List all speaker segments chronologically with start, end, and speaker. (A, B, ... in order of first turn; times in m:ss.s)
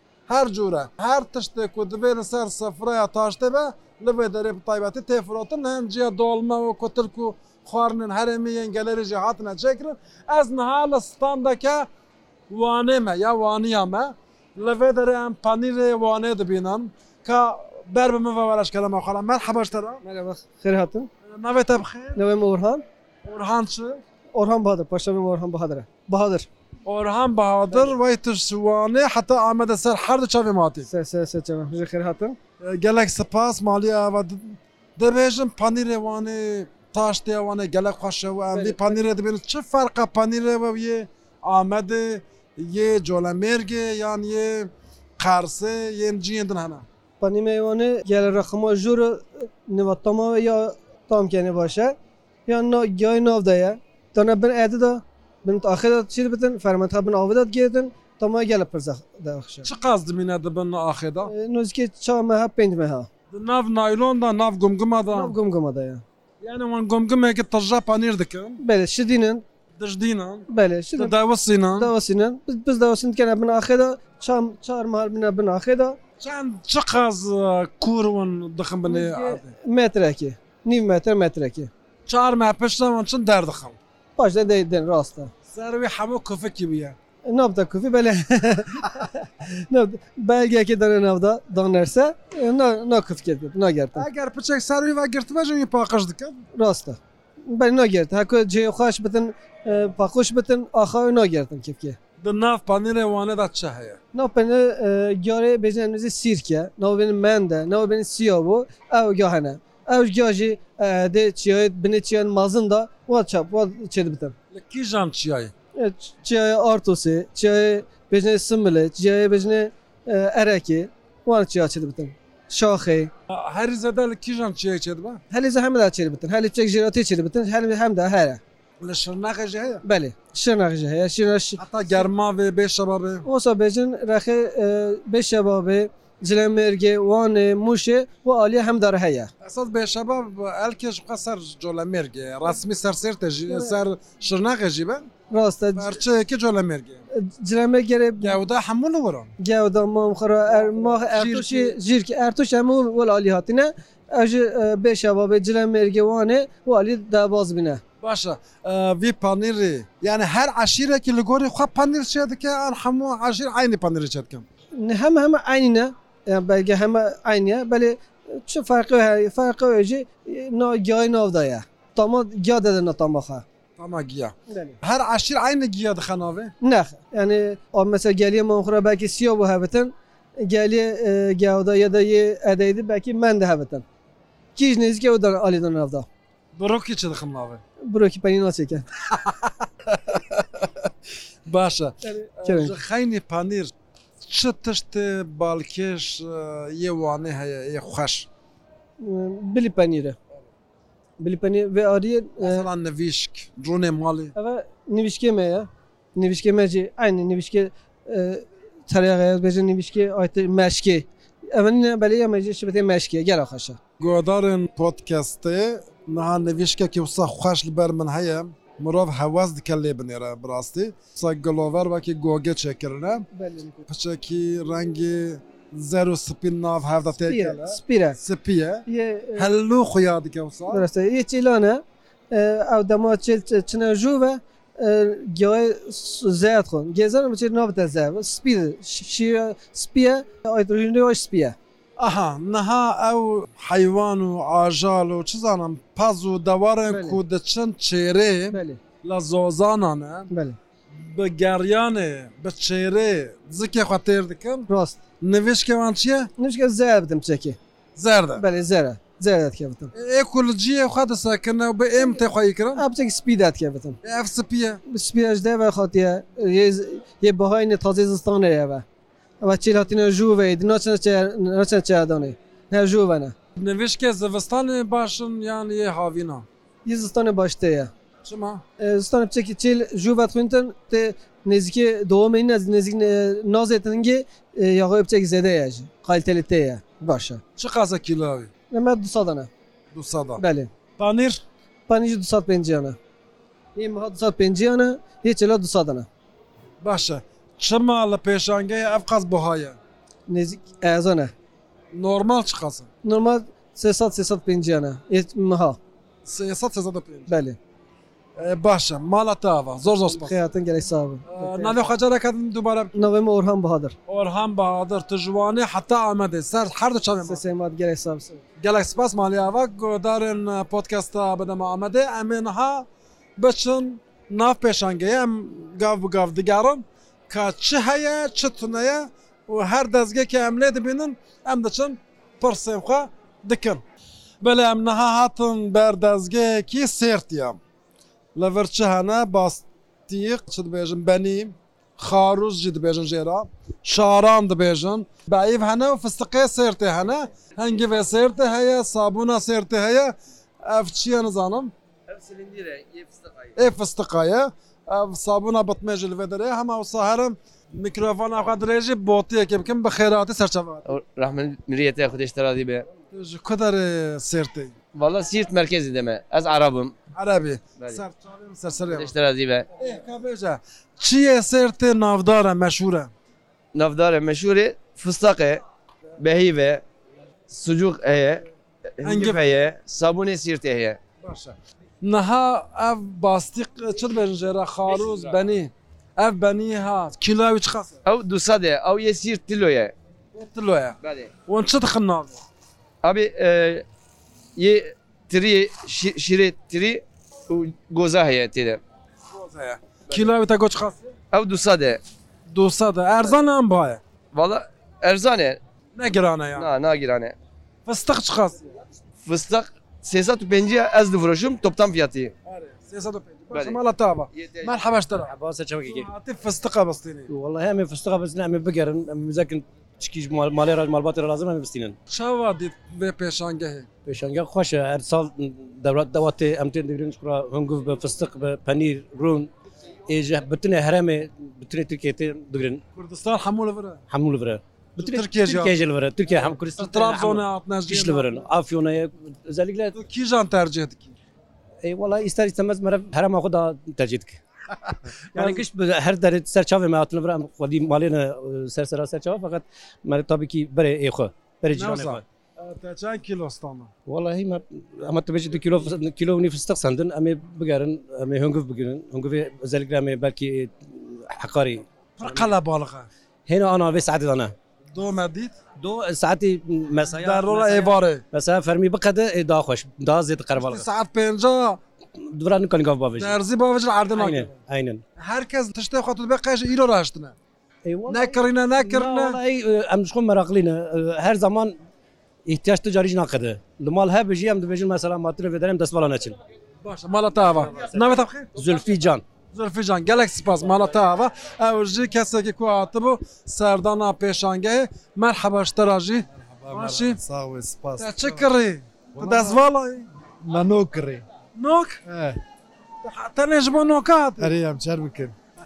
0:00.3-0:11.9 A
0:12.5-0:20.0 A
0:20.0-0:21.1 B
0:21.3-0:22.2 A
0:22.2-0:22.8 B
0:23.2-0:24.0 A
0:24.3-0:26.5 B
0:26.9-0:30.9 A
0:27.7-0:28.0 B
0:30.9-0:32.4 B
0:32.6-0:46.8 A
0:38.5-0:39.0 B
0:47.2-0:52.0 B
0:52.5-0:59.7 B
0:59.6-1:01.3 A
1:01.3-1:03.1 B
1:03.3-1:05.4 A
1:05.1-1:06.0 B
1:06.4-1:08.6 A
1:08.6-1:09.4 B
1:09.8-1:11.9 A
1:10.5-1:11.1 B
1:11.8-1:16.0 B
1:16.2-1:19.5 A
1:18.9-1:21.7 B
1:22.1-1:23.8 A
1:24.2-1:25.3 B
1:25.5-1:27.0 A
1:27.3-1:34.1 B
1:34.0-1:36.4 A
1:36.6-1:42.0 B
1:42.2-1:44.0 A
1:44.1-1:54.3 B
1:54.5-1:55.5 A
1:55.8-2:03.1 B
2:03.3-2:05.2 A
2:05.3-2:08.4 B
2:08.8-2:09.8 A
2:09.8-2:11.6 B
2:11.6-2:13.3 A
2:13.2-2:19.3 B
2:19.4-2:25.1 A
2:23.5-2:23.7 B
2:25.3-2:26.0 B
2:25.8-2:27.1 A
2:27.1-2:28.4 B
2:28.2-2:29.3 A
2:29.4-2:37.8 B
2:30.5-2:31.8 A
2:38.0-2:44.4 A
2:44.8-2:53.4 B
2:53.8-2:56.5 A
2:54.5-2:54.8 B
2:56.6-3:03.8 B
3:04.6-3:06.1 B
3:06.6-3:07.6 A
3:07.8-3:08.8 B
3:09.1-3:10.9 A
3:11.5-3:13.7 A
3:12.0-3:12.8 B
3:14.2-3:18.3 A
3:19.0-3:20.2 B
3:21.2-3:22.7 B
3:22.4-3:24.4 A
3:24.4-3:33.8 B
3:34.0-3:43.3 A
3:43.3-3:43.9 B
3:43.9-3:48.8 A
3:47.2-3:48.2 B
3:48.9-3:49.5 B
3:49.4-3:50.9 A
3:50.7-4:01.6 B
4:02.0-4:10.3 A
4:06.9-4:07.2 B
4:08.5-4:08.8 B
4:10.3-4:10.6 B
4:10.9-4:14.7 A
4:14.7-4:15.0 B
4:15.2-4:16.3 A
4:16.4-4:17.6 B
4:18.0-4:18.4 A
4:18.4-4:19.9 B
4:19.9-4:22.8 A
4:22.8-4:24.0 B
4:24.0-4:24.8 A
4:24.9-4:28.8 B
4:29.4-4:33.4 B
4:33.6-4:36.5 A
4:36.9-4:37.9 B
4:38.2-4:38.6 A
4:38.8-4:47.4 B
4:47.6-4:48.5 A
4:48.7-4:49.5 B
4:49.9-4:50.4 A
4:50.4-4:50.7 B
4:51.0-4:51.4 A
4:51.9-4:53.0 B
4:53.8-4:56.1 B
4:56.8-4:59.8 A
5:00.3-5:01.3 B
5:01.9-5:02.9 A
5:03.0-5:05.8 B
5:06.2-5:07.3 A
5:07.3-5:07.6 B
5:08.4-5:10.3 A
5:10.1-5:11.9 B
5:11.3-5:13.0 A
5:13.0-5:14.0 B
5:14.1-5:17.4 A
5:17.2-5:18.4 B
5:18.6-5:33.8 A
5:34.4-5:37.6 A
5:38.4-5:51.7 A
5:52.1-5:53.6 C
5:53.6-6:00.9 A
6:00.9-6:02.9 C
6:03.1-6:04.7 A
6:04.9-6:07.0 C
6:07.2-6:09.1 A
6:08.9-6:09.7 C
6:09.8-6:13.1 A
6:13.8-6:15.6 C
6:16.2-6:16.8 C
6:17.5-6:18.5 C
6:19.0-6:21.0 C
6:19.0-6:19.4 A
6:21.2-6:28.0 A
6:24.9-6:25.3 C
6:28.0-6:29.9 C
6:30.3-6:31.0 A
6:31.0-6:31.3 C
6:31.5-6:32.4 A
6:33.0-6:33.8 C
6:34.6-6:38.8 C
6:39.4-6:41.1 A
6:41.3-6:42.0 C
6:42.5-6:44.0 A
6:44.3-6:45.6 C
6:46.0-6:46.7 A
6:46.6-6:47.4 C
6:47.9-6:48.7 A
6:49.2-6:52.3 C
6:52.5-6:55.3 A
6:53.5-6:53.8 C
6:54.3-6:54.8 C
6:55.2-6:56.1 D
6:55.8-6:57.3 A
6:57.3-7:02.0 D
7:02.1-7:03.9 A
7:04.1-7:09.5 D
7:10.1-7:12.8 D
7:13.0-7:14.0 A
7:14.1-7:20.0 D
7:15.0-7:15.8 A
7:16.8-7:18.4 A
7:19.9-7:21.2 A
7:21.8-7:24.4 D
7:25.3-7:32.2 D
7:25.4-7:25.6 A
7:31.7-7:33.9 A
7:34.1-7:42.5 D
7:42.2-7:43.1 A
7:43.5-7:44.5 D
7:44.9-7:45.6 A
7:45.8-7:50.8 D
7:47.1-7:48.2 A
7:50.6-7:51.8 A
7:52.2-7:53.4 D
7:53.2-7:54.6 A
7:54.2-7:55.0 D
7:55.2-7:57.4 A
7:57.8-8:01.8 D
7:58.1-7:59.4 A
8:02.5-8:06.4 D
8:06.8-8:08.5 A
8:08.6-8:09.2 D
8:09.5-8:17.2 A
8:16.4-8:18.5 E
8:18.0-8:20.1 A
8:19.2-8:19.6 E
8:20.4-8:21.2 E
8:21.6-8:22.0 A
8:22.1-8:22.4 E
8:23.0-8:24.5 A
8:24.4-8:25.4 E